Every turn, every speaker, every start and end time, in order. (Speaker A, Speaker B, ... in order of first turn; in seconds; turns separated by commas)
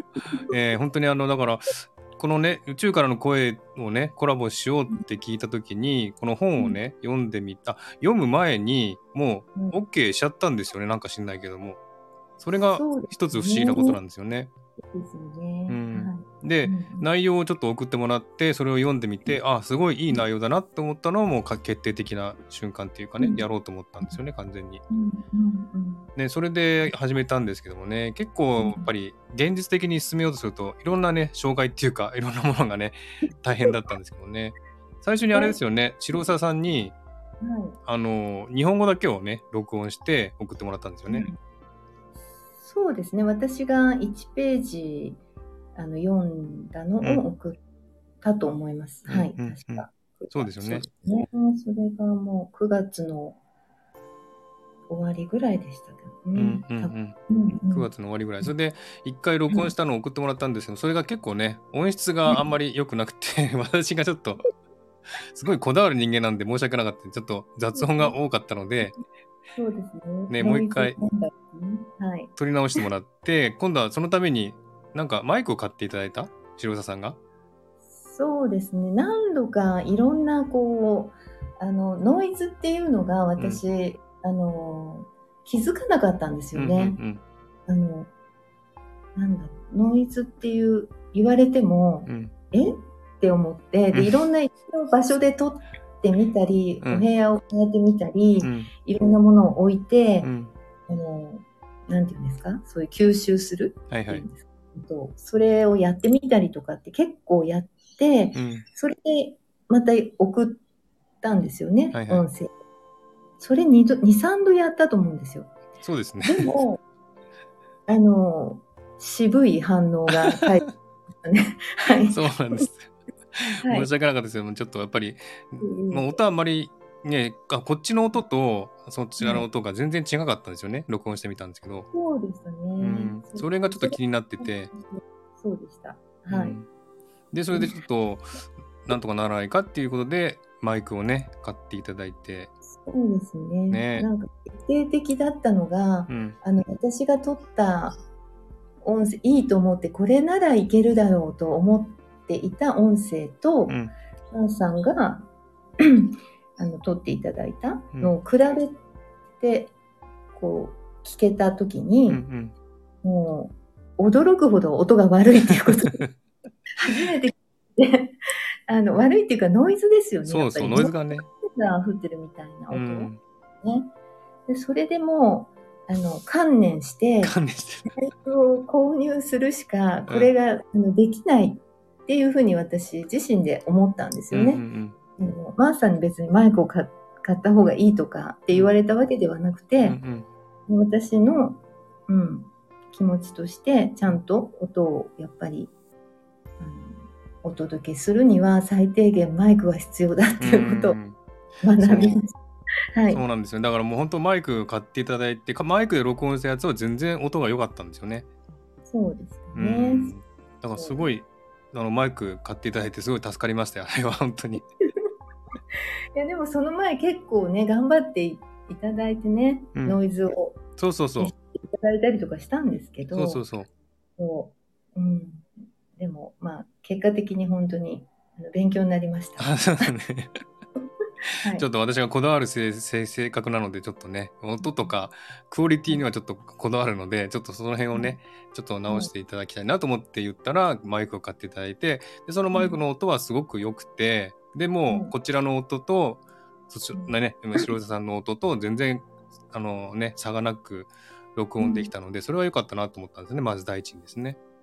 Speaker A: 0.5-11.8, Speaker A: 12.4-14.5, Speaker B: 12.7-14.0, Speaker B: 14.8-17.1, Speaker A: 15.7-24.8, Speaker B: 24.9-26.1, Speaker A: 26.1-36.9, Speaker B: 28.6-28.9, Speaker B: 35.3-35.6, Speaker B: 37.4-37.8, Speaker A: 37.9-41.2, Speaker B: 41.1-41.4, Speaker B: 42.6-45.2, Speaker B: 45.8-47.6, Speaker B: 48.2-53.4, Speaker A: 49.1-50.9, Speaker B: 54.9-57.9, Speaker A: 56.3-57.1, Speaker A: 57.7-64.4, Speaker A: 65.3-69.0, Speaker B: 67.7-68.2, Speaker B: 69.5-72.8, Speaker A: 70.3-71.0, Speaker A: 72.3-77.2, Speaker B: 78.0-87.0, Speaker A: 83.4-83.6, Speaker A: 86.5-87.2, Speaker B: 87.7-88.1, Speaker B: 89.2-100.3, Speaker A: 92.0-92.3, Speaker A: 96.8-97.1, Speaker A: 98.4-98.7, Speaker A: 100.2-100.5, Speaker B: 100.9-110.6, Speaker A: 103.9-104.2, Speaker A: 108.3-108.6, Speaker B: 111.2-112.5, Speaker A: 111.9-112.2, Speaker B: 113.4-115.5, Speaker A: 115.8-116.5, Speaker B: 116.2-116.8, Speaker B: 117.9-120.7, Speaker A: 120.3-120.7, Speaker B: 121.2-122.7, Speaker A: 122.1-131.9, Speaker B: 123.6-123.9, Speaker B: 125.6-126.2, Speaker B: 129.2-129.4, Speaker B: 131.9-136.6, Speaker A: 132.8-134.7, Speaker A: 136.3-136.7, Speaker A: 137.3-138.3, Speaker B: 137.5-137.8, Speaker A: 138.8-142.5, Speaker B: 142.7-148.0, Speaker A: 143.7-144.1, Speaker A: 146.1-146.3, Speaker B: 148.8-153.8, Speaker B: 154.3-155.3, Speaker B: 155.8-158.8, Speaker B: 159.4-159.7, Speaker B: 160.3-162.2, Speaker A: 162.1-162.5, Speaker B: 163.0-166.0, Speaker A: 165.7-166.1, Speaker B: 166.8-168.1, Speaker B: 168.7-173.1, Speaker A: 170.2-171.3, Speaker A: 172.7-173.2, Speaker B: 173.6-173.9, Speaker B: 174.5-177.3, Speaker A: 177.2-177.9, Speaker B: 177.9-184.6, Speaker A: 184.3-184.9, Speaker B: 185.2-190.0, Speaker A: 189.8-190.3, Speaker B: 190.7-195.7, Speaker B: 196.6-201.0, Speaker A: 200.4-201.2, Speaker B: 201.6-202.3, Speaker A: 201.8-202.2, Speaker B: 202.9-203.2, Speaker A: 203.1-208.2, Speaker B: 208.9-210.1, Speaker A: 209.5-214.6, Speaker B: 210.7-211.1, Speaker B: 216.2-220.6, Speaker A: 220.8-221.3, Speaker B: 221.2-223.4, Speaker A: 223.1-223.7, Speaker B: 224.2-229.9, Speaker A: 229.4-230.4, Speaker B: 231.4-231.7, Speaker A: 231.5-254.4, Speaker B: 234.6-234.9, Speaker B: 237.9-238.2, Speaker B: 242.5-242.8, Speaker B: 244.9-245.1, Speaker B: 246.9-247.7, Speaker B: 251.6-251.9